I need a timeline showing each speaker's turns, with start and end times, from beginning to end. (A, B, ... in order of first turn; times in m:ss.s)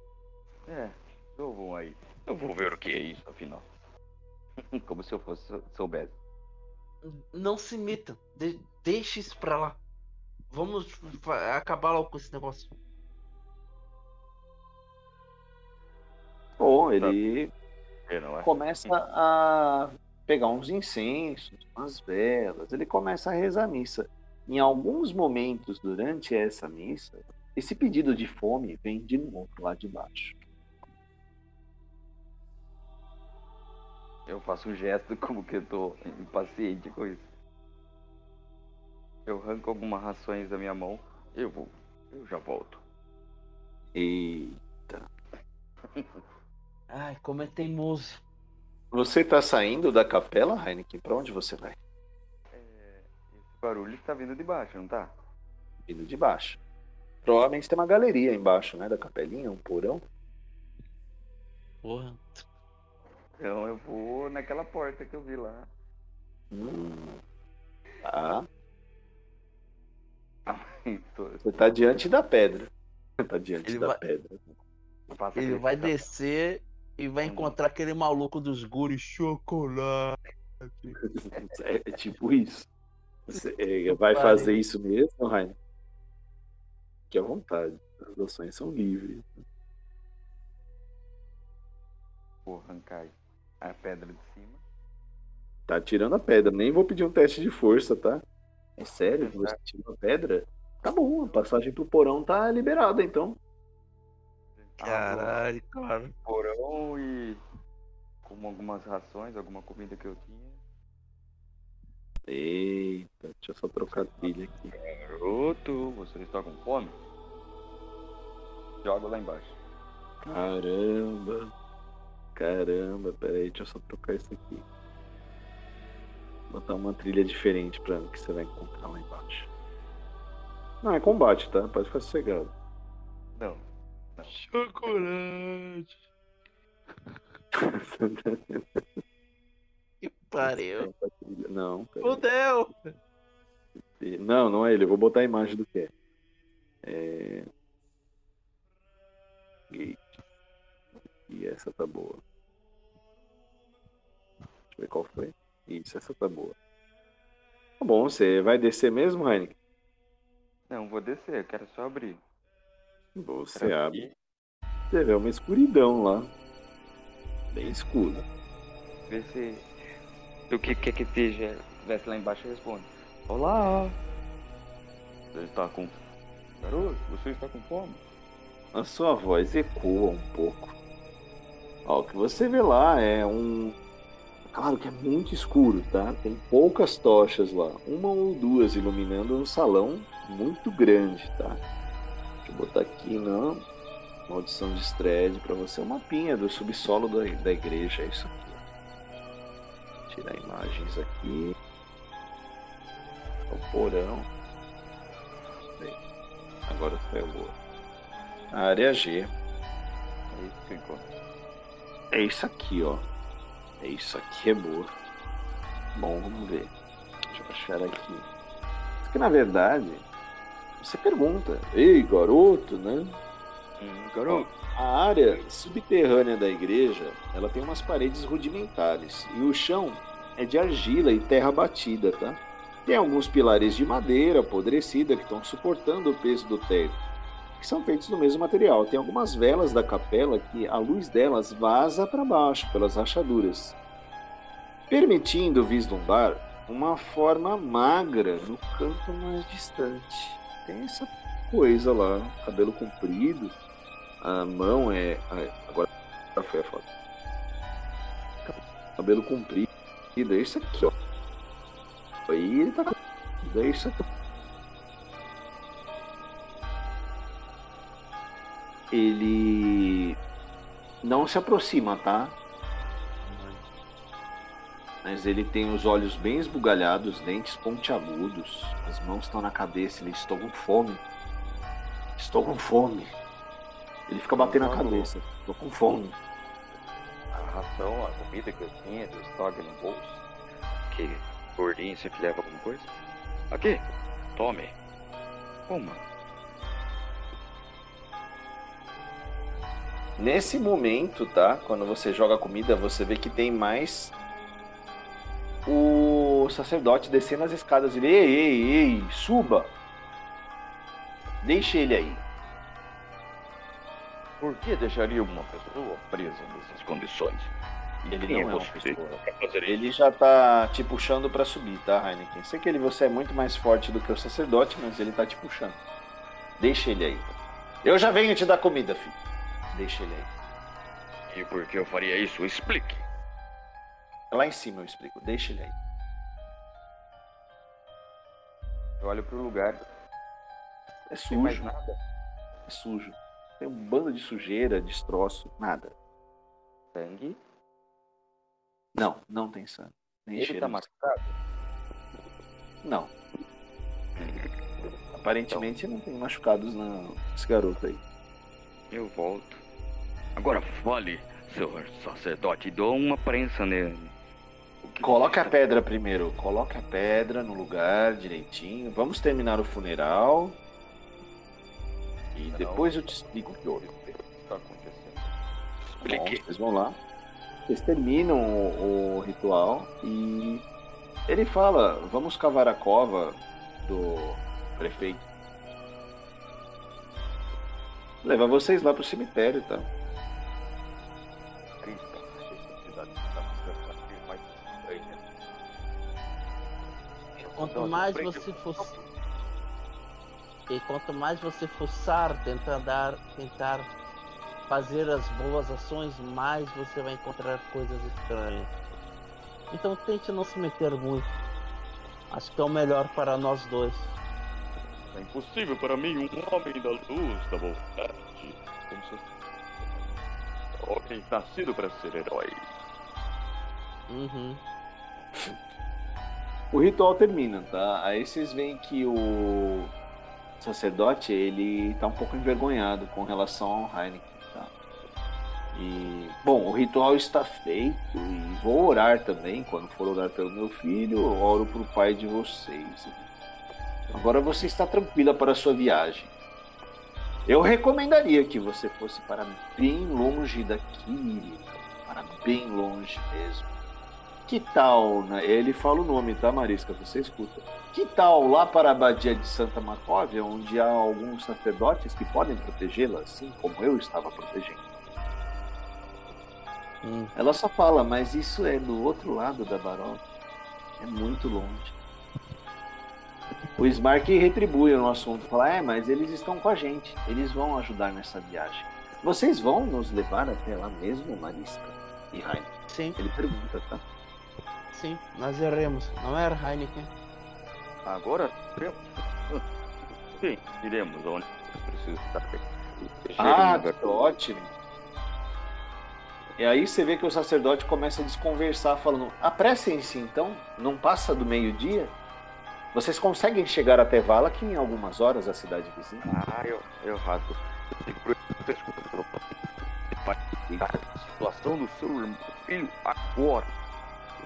0:00.7-0:03.7 A
0:04.7-0:06.2 A
0:07.0-0:09.8 B
0:10.5-0:12.7 B
0:16.6-0:17.5 C
0:18.1-0:18.9 A
0:18.4-0:30.4 C
0:34.3-0:37.2 A
0:39.2-0:42.8 A
0:43.9-0:45.1 C
0:45.9-0:46.2 A
0:46.9-0:48.2 B
0:48.9-0:51.8 C
0:52.5-0:55.1 A
0:55.9-0:56.6 C
0:57.2-1:00.0 C
1:01.8-1:02.4 B
1:03.4-1:05.7 A
1:06.5-1:07.2 C
1:08.0-1:08.5 C
1:10.4-1:11.8 A
1:11.4-1:14.4 C
1:13.6-1:14.0 B
1:15.1-1:16.1 A
1:15.4-1:21.0 B
1:17.2-1:17.6 A
1:21.5-1:22.7 C
1:23.3-1:25.6 C
1:23.9-1:24.6 B
1:27.1-1:29.4 C
1:32.4-1:34.6 A
1:35.7-1:38.2 C
1:38.8-1:43.4 C
1:39.2-1:39.6 A
1:44.6-1:45.4 A
1:44.8-1:46.1 B
1:46.2-1:47.4 A
1:48.2-1:50.6 A
1:52.2-1:54.6 C
1:53.9-1:56.9 A
1:58.8-1:59.5 A
2:00.2-2:01.5 C
2:02.3-2:04.6 C
2:06.5-2:09.5 C
2:10.8-2:12.5 C
2:13.4-2:13.6 A
2:14.2-2:15.0 A
2:14.3-2:16.0 B
2:17.5-2:18.8 C
2:20.0-2:20.9 B
2:20.4-2:22.2 C
2:22.0-2:22.7 B
2:24.0-2:25.9 C
2:26.8-2:27.4 C
2:29.7-2:30.1 C
2:31.3-2:32.2 C
2:34.7-2:36.6 C
2:37.8-2:39.5 C
2:40.7-2:42.2 A
2:43.2-2:44.0 C
2:43.5-2:44.1 A
2:44.9-2:46.3 C
2:47.5-2:48.2 C
2:49.0-2:49.6 A
2:50.5-2:53.9 A
2:55.3-2:55.9 A
2:56.6-2:58.0 A
2:58.7-3:00.7 C
3:01.8-3:03.8 C
3:04.5-3:11.6 C
3:12.4-3:13.6 C
3:14.3-3:18.6 C
3:20.1-3:21.5 C
3:23.5-3:24.3 C
3:26.7-3:27.5 C
3:28.5-3:29.3 C
3:30.3-3:31.1 A
3:32.1-3:33.0 C
3:33.8-3:34.9 C
3:35.9-3:36.7 C
3:37.3-3:38.2 C
3:39.0-3:40.0 C
3:40.8-3:43.1 C
3:43.8-3:44.5 A
3:44.3-3:57.0 C
3:57.6-4:03.7 C
4:04.9-4:13.5 C
4:14.2-4:16.8 C
4:19.0-4:20.9 C
4:22.3-4:24.0 C
4:28.9-4:30.2 C
4:31.0-4:32.3 C
4:35.0-4:41.0 C
4:42.2-4:43.1 C
4:44.1-4:46.2 C
4:44.3-4:45.1 A
4:47.3-4:50.2 A
4:50.9-4:53.0 A
4:53.5-4:53.8 A
4:54.3-4:54.7 A
4:55.7-4:56.0 A
5:00.2-5:04.1 C
5:05.6-5:09.7 C
5:11.4-5:12.2 C
5:14.4-5:17.5 A
5:18.0-5:19.9 A
5:18.1-5:25.8 C
5:26.6-5:27.2 C
5:27.8-5:29.2 C
5:29.7-5:30.3 C
5:31.3-5:33.0 A
5:34.3-5:35.7 C
5:39.0-5:39.8 A
5:41.1-5:41.7 C
5:41.3-5:41.9 A
5:42.7-5:45.9 C
5:46.9-5:47.4 A
5:48.9-5:50.8 C
5:50.4-5:51.4 A
5:52.8-5:53.1 C
5:54.2-5:54.5 A
5:55.1-5:58.0 C
5:58.9-5:59.6 A
6:00.4-6:04.1 A
6:04.8-6:05.6 A
6:05.0-6:10.6 C
6:12.3-6:13.1 A
6:12.6-6:13.8 C
6:13.7-6:15.3 A
6:15.9-6:16.4 A
6:16.0-6:17.0 C
6:17.7-6:20.6 C
6:21.3-6:25.2 C
6:28.2-6:29.9 C
6:31.8-6:35.2 A
6:37.4-6:38.9 B
6:37.5-6:39.0 A
6:40.7-6:43.9 B
6:44.7-6:48.7 B
6:49.7-6:51.3 B
6:52.3-6:54.1 B
6:55.1-6:59.0 A
7:00.8-7:02.6 A
7:04.1-7:04.6 B
7:06.7-7:09.9 C
7:10.6-7:14.7 C
7:15.7-7:23.2 C
7:24.1-7:26.3 C
7:27.5-7:33.7 C
7:34.5-7:44.8 C
7:47.0-7:47.3 B
7:47.4-7:50.2 C
7:51.0-7:51.9 C
7:53.8-8:04.0 C
8:02.9-8:03.2 B
8:04.9-8:07.1 B
8:08.0-8:09.6 A
8:10.4-8:14.4 A
8:13.4-8:14.7 C
8:16.6-8:22.1 C
8:22.9-8:26.2 C
8:26.2-8:29.4 A
8:30.2-8:33.7 A